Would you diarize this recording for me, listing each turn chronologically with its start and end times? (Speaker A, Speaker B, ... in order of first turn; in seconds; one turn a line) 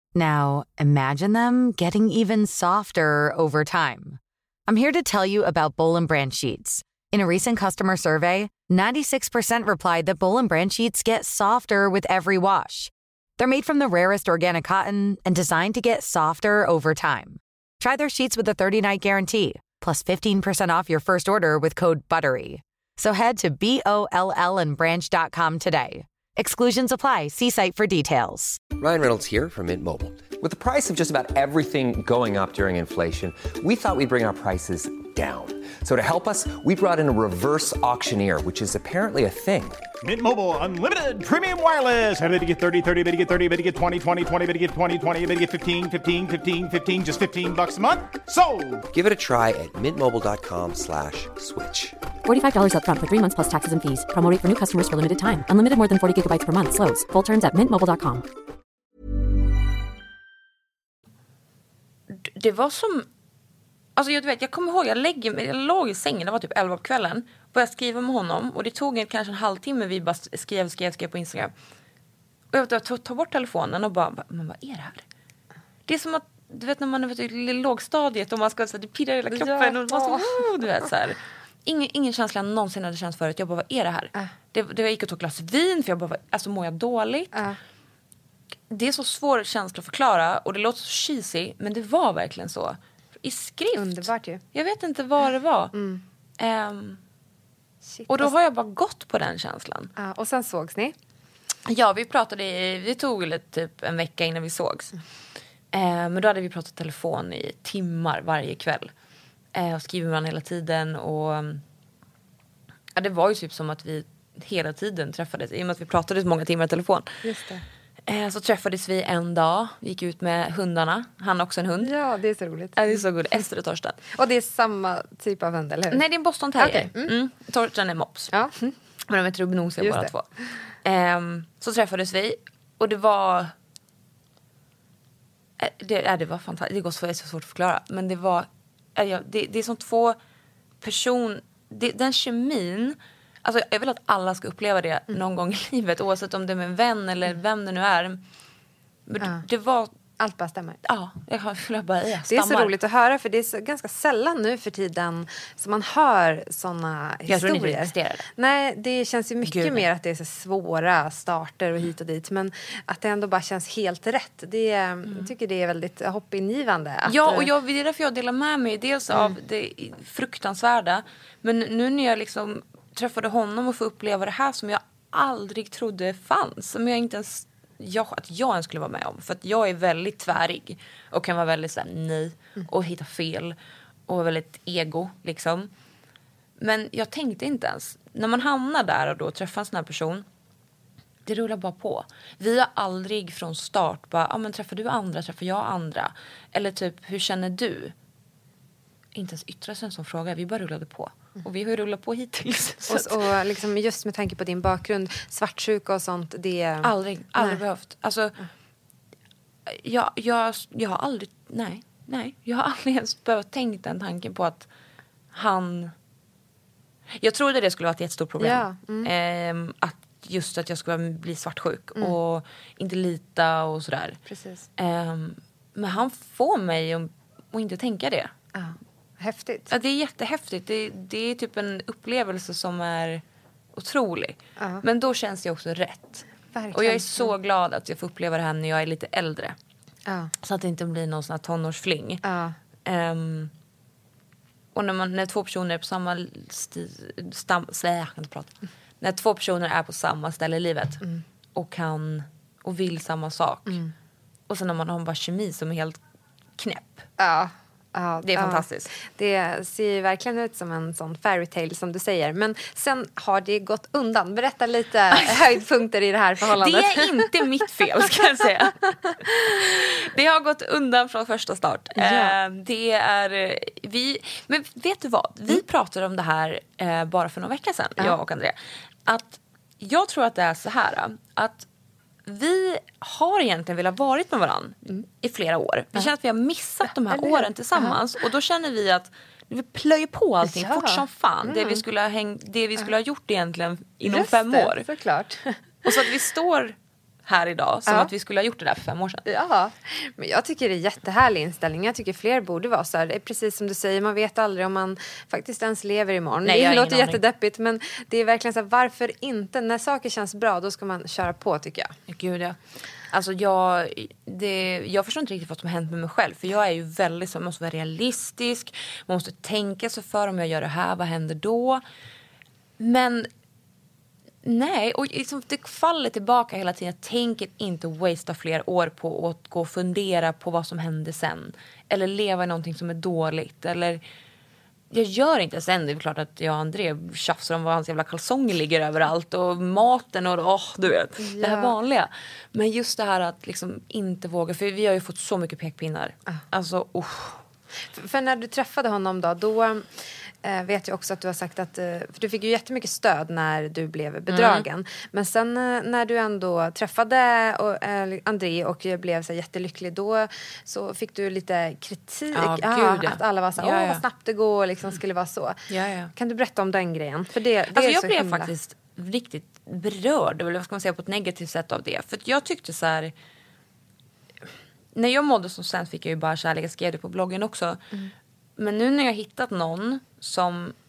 Speaker A: 0.1-28.6
Speaker B: 28.8-39.9
Speaker C: 40.0-48.9
Speaker B: 48.9-52.0
Speaker D: 52.2-58.2
Speaker E: 62.1-63.1
Speaker E: 64.0-71.5
Speaker E: 72.5-75.0
Speaker E: 75.9-87.3
Speaker F: 79.3-80.4
Speaker F: 87.3-87.6
Speaker E: 88.7-95.7
Speaker F: 93.7-94.4
Speaker F: 95.7-96.0
Speaker E: 96.4-97.0
Speaker F: 97.9-98.3
Speaker E: 98.1-99.9
Speaker F: 100.0-100.9
Speaker E: 101.7-104.9
Speaker E: 105.7-108.9
Speaker E: 109.5-111.6
Speaker E: 113.0-117.2
Speaker F: 117.2-117.6
Speaker E: 118.1-121.9
Speaker F: 121.8-123.0
Speaker E: 122.8-124.0
Speaker F: 124.1-126.0
Speaker E: 125.9-128.3
Speaker F: 126.6-127.1
Speaker F: 128.3-128.8
Speaker E: 129.1-130.2
Speaker F: 129.8-130.1
Speaker E: 130.8-133.5
Speaker E: 135.6-140.2
Speaker E: 140.8-148.2
Speaker E: 149.1-149.9
Speaker F: 150.2-150.8
Speaker E: 150.8-152.7
Speaker F: 152.3-167.5
Speaker E: 157.3-158.2
Speaker E: 159.4-159.8
Speaker E: 167.1-183.5
Speaker E: 184.1-185.7
Speaker E: 186.6-190.2
Speaker E: 191.2-197.9
Speaker E: 199.1-203.2
Speaker F: 202.9-207.6
Speaker E: 206.8-208.4
Speaker E: 209.7-214.7
Speaker E: 215.3-215.9
Speaker E: 217.2-224.2
Speaker F: 218.4-219.1
Speaker F: 224.3-224.7
Speaker E: 224.8-228.3
Speaker F: 228.5-229.7
Speaker E: 229.7-233.2
Speaker E: 233.8-239.6
Speaker F: 234.6-234.8
Speaker F: 236.5-237.3
Speaker F: 240.1-240.3
Speaker E: 240.4-242.2
Speaker F: 242.2-242.6
Speaker E: 242.8-243.5
Speaker E: 244.7-251.0
Speaker E: 251.5-253.8
Speaker F: 253.7-253.9
Speaker E: 254.5-256.0
Speaker E: 256.6-257.1
Speaker F: 257.2-267.3
Speaker E: 258.2-258.9
Speaker E: 265.1-265.6
Speaker E: 266.5-281.7
Speaker F: 271.9-272.4
Speaker E: 282.2-294.9
Speaker F: 287.1-288.0
Speaker F: 290.4-291.8
Speaker F: 294.0-295.9
Speaker E: 295.8-296.7
Speaker E: 297.2-299.2
Speaker F: 299.2-311.9
Speaker E: 306.4-307.2
Speaker E: 312.1-312.6
Speaker E: 313.1-321.8
Speaker E: 322.8-323.3
Speaker E: 324.4-334.0
Speaker E: 334.9-347.4
Speaker F: 341.2-341.7
Speaker F: 347.9-368.5
Speaker E: 354.3-354.7
Speaker E: 362.3-364.0
Speaker E: 365.7-366.1
Speaker E: 367.7-373.1
Speaker E: 374.9-377.9
Speaker E: 378.6-380.7